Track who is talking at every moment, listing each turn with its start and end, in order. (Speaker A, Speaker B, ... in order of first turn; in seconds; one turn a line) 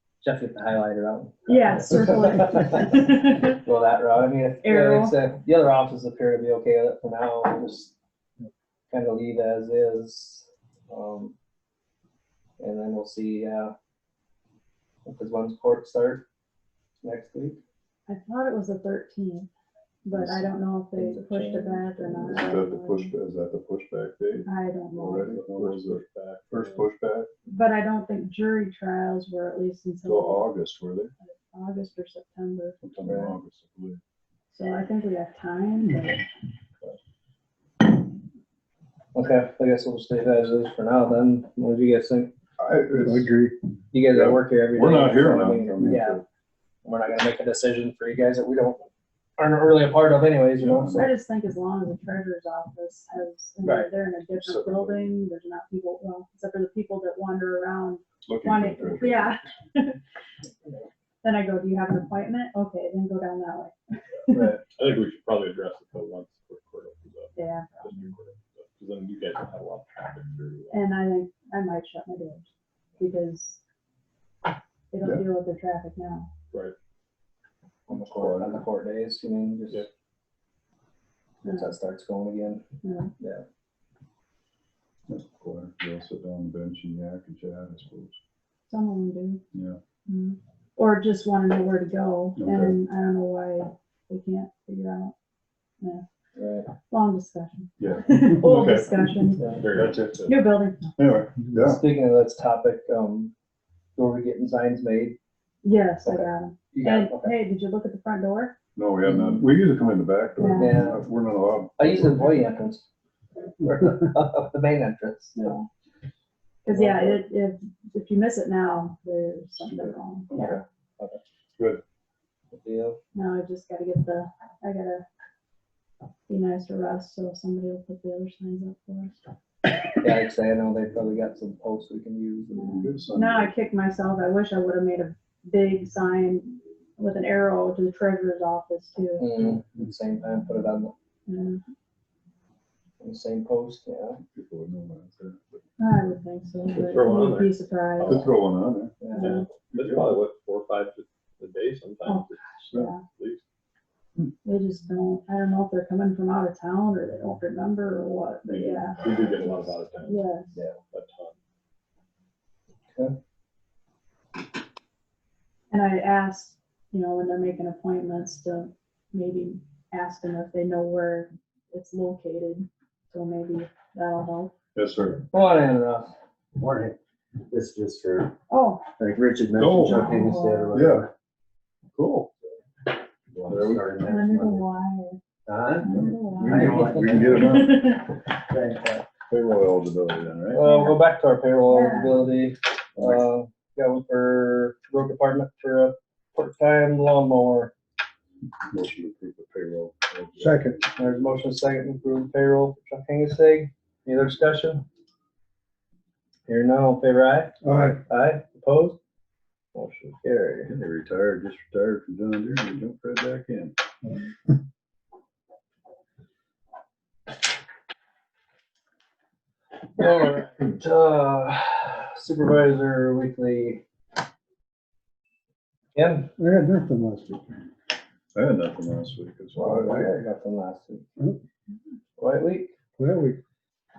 Speaker A: 0.2-7.9
Speaker B: 1.5-3.6
Speaker B: 4.6-5.1
Speaker A: 8.9-11.3
Speaker A: 12.6-13.7
Speaker A: 15.1-16.2
Speaker A: 17.0-17.6
Speaker B: 18.1-19.5
Speaker B: 20.0-23.1
Speaker C: 20.1-20.5
Speaker A: 20.9-22.4
Speaker C: 22.2-27.3
Speaker B: 24.4-25.3
Speaker D: 25.2-26.9
Speaker B: 27.5-30.5
Speaker C: 30.0-31.1
Speaker B: 31.2-32.8
Speaker C: 32.8-34.0
Speaker A: 33.0-33.3
Speaker B: 34.5-36.2
Speaker A: 39.1-42.3
Speaker C: 42.6-43.3
Speaker E: 43.0-43.5
Speaker A: 43.9-46.2
Speaker C: 44.0-46.2
Speaker A: 46.8-51.0
Speaker C: 50.6-51.1
Speaker B: 50.9-60.0
Speaker A: 53.6-53.9
Speaker C: 54.3-55.1
Speaker C: 58.2-59.5
Speaker B: 61.2-64.5
Speaker A: 64.3-64.6
Speaker D: 64.6-70.8
Speaker B: 67.3-67.9
Speaker B: 70.7-73.6
Speaker B: 74.9-76.3
Speaker A: 77.9-79.9
Speaker C: 77.9-78.6
Speaker B: 81.4-81.7
Speaker A: 81.4-82.6
Speaker B: 82.8-83.1
Speaker C: 85.1-88.2
Speaker B: 88.7-89.4
Speaker C: 89.5-89.8
Speaker B: 90.1-95.1
Speaker C: 92.4-92.8
Speaker A: 96.3-96.7
Speaker B: 96.8-99.5
Speaker C: 97.8-99.1
Speaker A: 99.3-99.6
Speaker D: 99.5-100.4
Speaker C: 99.7-100.2
Speaker B: 100.2-101.0
Speaker C: 101.0-101.8
Speaker A: 101.5-103.3
Speaker A: 104.0-105.2
Speaker B: 105.6-108.5
Speaker A: 106.0-107.3
Speaker C: 108.8-112.5
Speaker A: 109.0-109.3
Speaker B: 110.4-110.9
Speaker A: 110.5-111.0
Speaker A: 111.8-112.8
Speaker A: 113.6-115.5
Speaker B: 115.3-115.7
Speaker B: 116.6-120.6
Speaker A: 116.7-117.2
Speaker C: 119.6-120.6
Speaker A: 120.3-121.2
Speaker C: 121.6-121.8
Speaker A: 122.5-123.0
Speaker B: 123.1-125.0
Speaker B: 126.3-129.2
Speaker A: 130.0-132.7
Speaker B: 132.5-139.2
Speaker C: 132.7-133.5
Speaker A: 139.2-140.9
Speaker B: 141.3-141.6
Speaker A: 143.0-144.2
Speaker C: 144.3-145.6
Speaker B: 145.8-148.3
Speaker D: 146.7-148.4
Speaker C: 148.0-148.9
Speaker A: 149.0-149.4
Speaker B: 149.1-149.5
Speaker D: 149.1-153.4
Speaker C: 149.8-150.2
Speaker B: 152.1-153.1
Speaker B: 154.4-160.6
Speaker D: 158.5-161.3
Speaker B: 165.7-174.5
Speaker C: 174.7-175.2
Speaker A: 175.3-176.1
Speaker E: 176.5-178.3
Speaker B: 178.5-178.9
Speaker E: 179.0-181.1
Speaker C: 179.6-180.1
Speaker B: 179.8-180.8
Speaker C: 180.7-181.1
Speaker C: 181.9-182.3
Speaker E: 183.3-184.6
Speaker C: 183.5-183.9
Speaker B: 184.0-185.2
Speaker E: 185.5-185.9
Speaker B: 185.8-186.7
Speaker C: 185.9-188.1
Speaker E: 186.4-187.5
Speaker B: 187.4-188.0
Speaker E: 188.5-189.0
Speaker C: 189.3-190.7
Speaker A: 190.5-197.7
Speaker B: 190.6-191.0
Speaker B: 191.7-192.2
Speaker C: 198.7-200.8
Speaker E: 200.4-200.8
Speaker A: 200.9-204.8
Speaker A: 206.5-209.0
Speaker E: 207.6-208.0
Speaker A: 209.7-210.7
Speaker C: 210.7-213.7
Speaker A: 220.0-223.8
Speaker A: 225.9-226.3
Speaker E: 226.4-227.6
Speaker C: 228.3-230.1
Speaker A: 229.5-231.0
Speaker A: 232.2-232.7
Speaker E: 233.0-233.4